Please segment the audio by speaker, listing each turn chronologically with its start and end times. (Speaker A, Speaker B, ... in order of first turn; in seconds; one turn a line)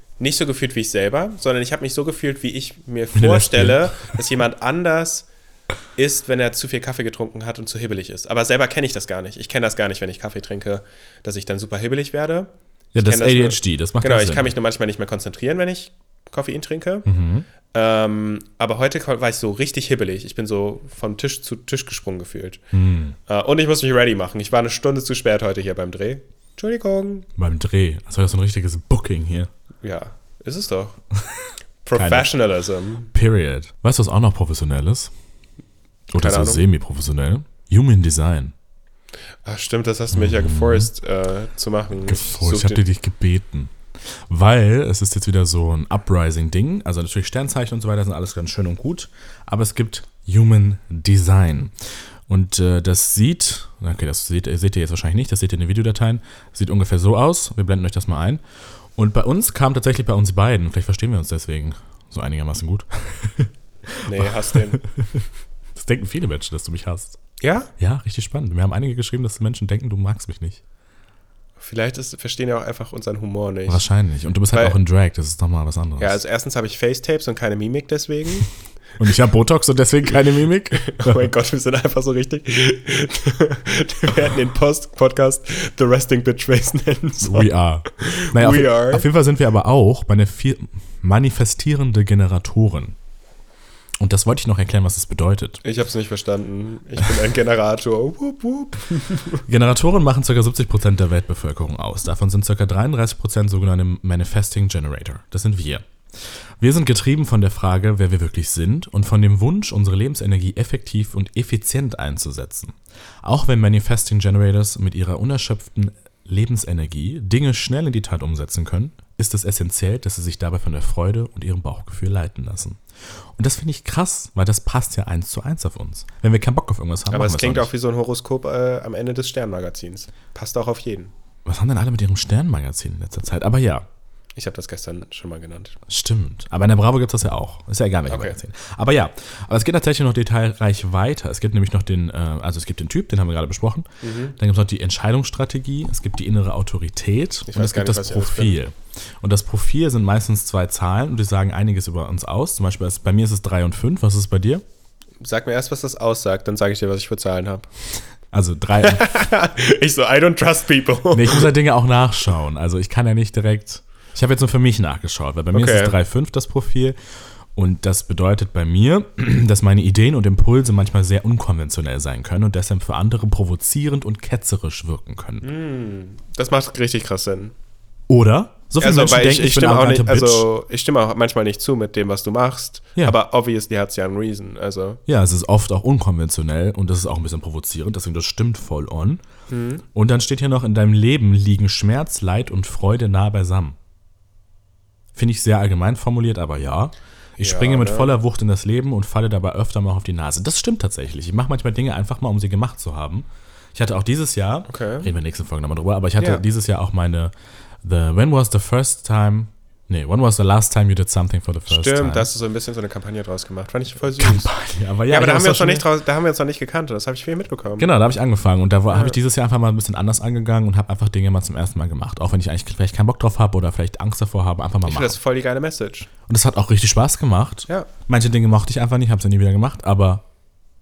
Speaker A: 0.2-5.3
Speaker B: 3.1-4.1
Speaker A: 6.0-17.1
Speaker B: 12.9-14.5
Speaker B: 17.0-17.5
Speaker A: 17.7-22.6
Speaker B: 22.7-23.2
Speaker A: 23.3-27.3
Speaker B: 27.4-29.5
Speaker A: 29.8-31.0
Speaker B: 31.2-32.3
Speaker A: 31.8-33.1
Speaker B: 33.1-35.1
Speaker B: 36.1-38.5
Speaker A: 36.2-36.6
Speaker A: 39.4-42.8
Speaker B: 40.1-40.9
Speaker B: 42.0-51.7
Speaker B: 52.3-58.4
Speaker B: 59.0-65.2
Speaker A: 64.0-64.8
Speaker B: 65.7-67.2
Speaker A: 67.4-67.7
Speaker B: 67.8-70.6
Speaker A: 71.6-73.8
Speaker B: 73.7-76.2
Speaker A: 74.5-74.8
Speaker A: 76.0-78.5
Speaker B: 79.0-81.2
Speaker A: 80.7-89.1
Speaker B: 87.2-93.0
Speaker B: 94.0-95.6
Speaker A: 95.6-99.4
Speaker B: 99.4-105.8
Speaker B: 106.6-122.8
Speaker B: 123.4-127.7
Speaker A: 127.1-131.1
Speaker B: 131.4-133.8
Speaker A: 134.3-135.8
Speaker B: 135.9-154.6
Speaker A: 138.1-138.4
Speaker A: 144.0-144.4
Speaker A: 147.5-148.6
Speaker A: 155.2-157.7
Speaker B: 158.3-159.1
Speaker A: 158.8-161.5
Speaker B: 161.1-166.9
Speaker A: 165.5-165.9
Speaker B: 167.6-175.5
Speaker A: 175.4-177.5
Speaker B: 178.1-180.4
Speaker A: 178.8-185.0
Speaker B: 185.1-189.2
Speaker A: 189.5-189.8
Speaker B: 189.9-193.8
Speaker B: 195.1-207.3
Speaker A: 197.4-198.2
Speaker A: 204.7-205.1
Speaker A: 206.2-206.4
Speaker B: 207.8-212.3
Speaker A: 211.7-214.5
Speaker B: 214.2-215.9
Speaker A: 215.1-217.9
Speaker B: 217.8-225.2
Speaker A: 218.9-219.2
Speaker A: 224.8-226.1
Speaker B: 226.3-230.2